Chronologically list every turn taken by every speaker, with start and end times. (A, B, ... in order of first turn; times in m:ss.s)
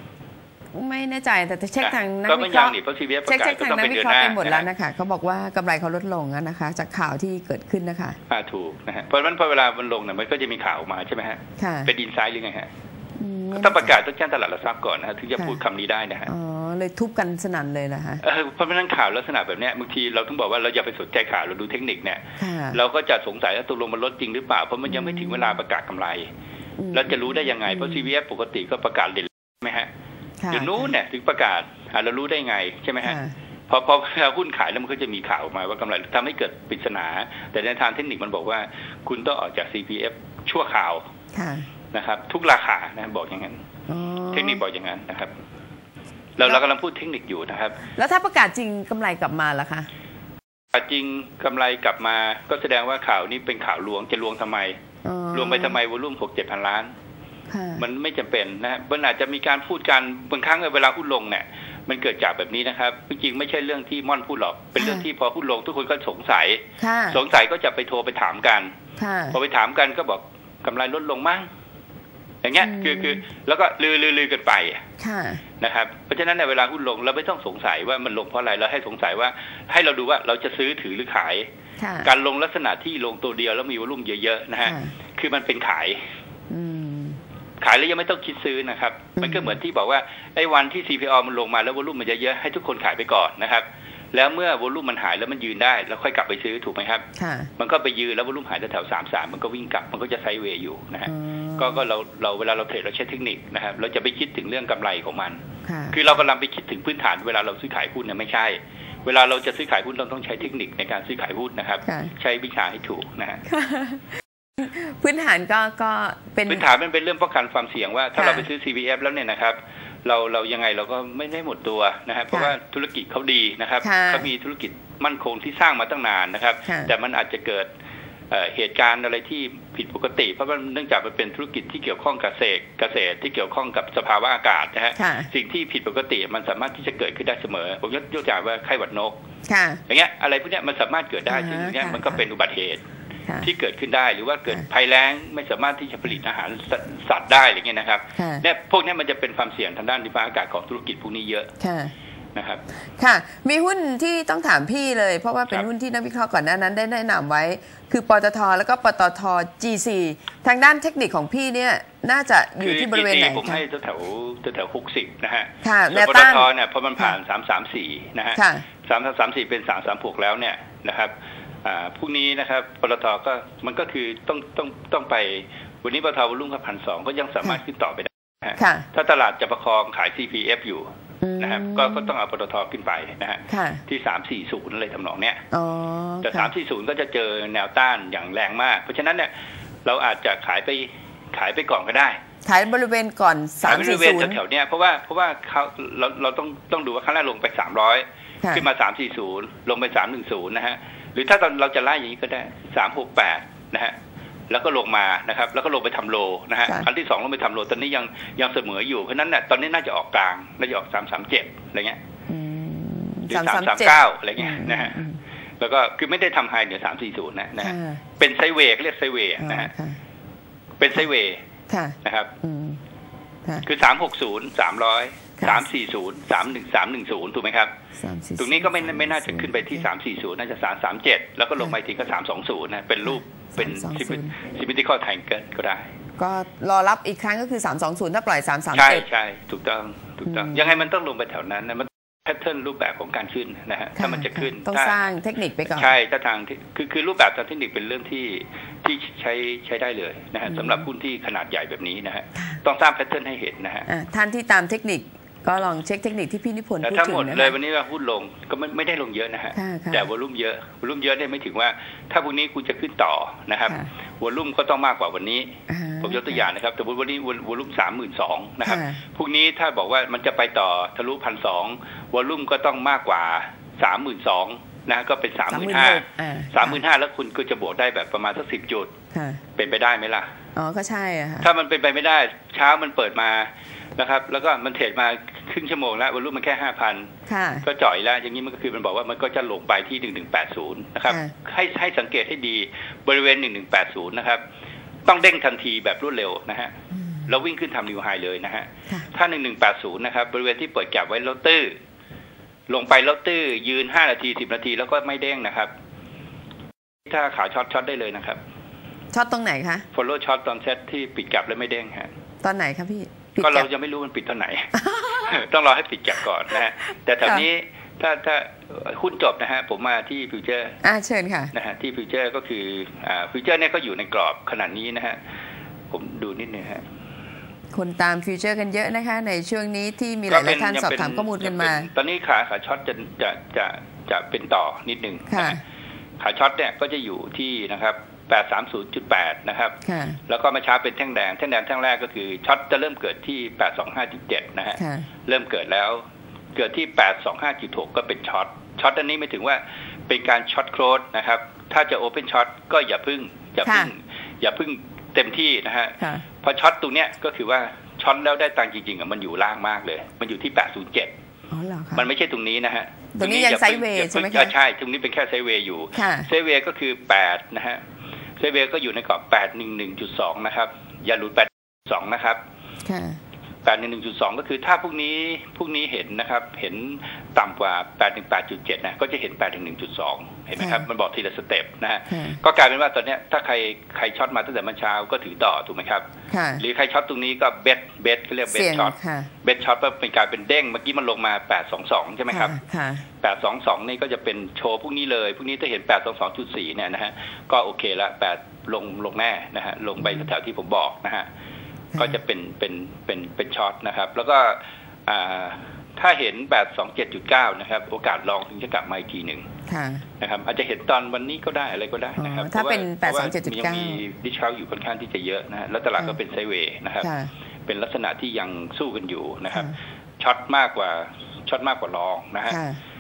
0:00.7-0:08.2 A
0:01.8-0:04.7 B
0:08.3-0:12.7 B
0:11.6-0:11.9 A
0:13.2-0:13.9 A
0:13.5-0:16.3 B
0:16.3-0:18.2 A
0:18.2-0:26.3 B
0:22.4-0:22.8 A
0:24.9-0:25.6 A
0:26.8-0:28.0 A
0:26.9-0:29.9 B
0:30.4-0:30.9 A
0:30.5-0:41.0 B
0:33.0-0:33.3 A
0:41.3-0:41.7 A
0:41.9-0:43.6 B
0:43.9-0:44.6 A
0:44.3-0:45.3 B
0:46.4-0:47.8 B
0:48.0-0:49.9 A
0:50.7-0:54.8 B
0:55.0-0:55.8 A
0:55.3-0:56.9 B
0:57.5-0:57.8 A
0:57.8-1:08.7 B
1:04.8-1:05.1 A
1:06.8-1:07.2 A
1:09.0-1:09.4 A
1:09.3-1:11.5 B
1:12.4-1:14.9 B
1:12.6-1:13.2 A
1:15.0-1:15.4 A
1:15.6-1:21.5 B
1:21.8-1:22.1 A
1:22.0-1:26.0 B
1:24.6-1:24.9 A
1:26.5-1:27.2 A
1:27.6-1:37.0 B
1:29.2-1:29.6 A
1:37.2-1:37.5 A
1:37.6-1:53.4 B
1:41.1-1:41.8 A
1:45.6-1:46.0 A
1:51.8-1:52.1 A
1:53.5-1:56.6 A
1:56.5-2:07.7 B
1:58.2-1:58.4 A
2:03.8-2:04.3 A
2:08.3-2:19.2 B
2:15.0-2:15.3 A
2:19.5-2:19.8 A
2:19.9-2:22.8 B
2:21.3-2:22.2 A
2:23.4-2:31.5 B
2:28.2-2:28.4 A
2:31.6-2:31.9 A
2:32.4-2:32.6 B
2:33.0-2:43.6 A
2:42.6-3:05.4 B
2:45.6-2:46.5 A
2:48.4-2:48.6 A
2:58.6-2:58.9 A
3:01.2-3:02.1 A
3:03.5-3:03.8 A
3:05.5-3:06.5 A
3:06.2-3:09.3 B
3:09.8-3:12.2 B
3:12.4-3:14.4 A
3:13.6-3:24.0 B
3:24.5-3:32.0 B
3:32.3-3:35.2 A
3:33.3-3:35.0 B
3:35.6-3:39.7 B
3:37.6-3:38.0 A
3:39.4-3:40.0 A
3:40.8-3:41.4 B
3:41.7-3:42.8 A
3:42.0-3:42.3 B
3:43.6-3:47.7 B
3:48.0-3:49.9 A
3:48.4-3:55.9 B
3:53.1-3:54.4 A
3:56.2-3:59.1 A
3:58.7-4:05.0 B
4:00.3-4:00.7 A
4:04.0-4:05.9 A
4:05.7-4:13.9 B
4:10.5-4:10.8 A
4:13.9-4:17.6 A
4:16.8-4:39.0 B
4:19.6-4:20.1 A
4:25.7-4:26.4 A
4:28.6-4:29.0 A
4:35.5-4:36.8 A
4:39.1-4:39.4 A
4:39.6-4:40.3 B
4:40.6-4:41.5 A
4:41.4-4:47.1 B
4:47.3-4:47.7 A
4:47.6-4:54.4 B
4:55.1-4:56.8 B
4:57.3-5:01.7 B
5:02.7-5:05.7 B
5:07.1-5:08.4 B
5:09.1-5:09.8 A
5:09.9-5:12.1 B
5:12.4-5:13.7 A
5:13.4-5:20.8 B
5:14.8-5:15.4 A
5:20.8-5:21.5 A
5:21.5-5:25.2 B
5:25.9-5:26.8 B
5:27.7-5:31.9 A
5:30.3-5:35.6 B
5:35.3-5:35.6 A
5:36.2-5:46.0 B
5:39.8-5:40.2 A
5:44.8-5:45.1 A
5:46.6-6:01.1 B
5:53.6-5:53.9 A
6:01.5-6:02.1 A
6:02.0-6:07.8 B
6:03.2-6:04.5 A
6:06.0-6:06.3 A
6:08.4-6:12.4 B
6:12.8-6:13.2 A
6:13.6-6:26.1 B
6:20.6-6:20.8 A
6:22.1-6:22.4 A
6:26.3-6:26.6 A
6:26.6-6:32.6 B
6:28.5-6:29.3 A
6:32.3-6:33.0 A
6:33.2-6:41.3 B
6:42.0-6:49.5 B
6:49.7-6:50.0 A
6:50.2-6:57.1 B
6:52.2-6:54.0 A
6:57.0-6:57.3 A
6:57.7-7:02.6 B
7:02.5-7:02.8 A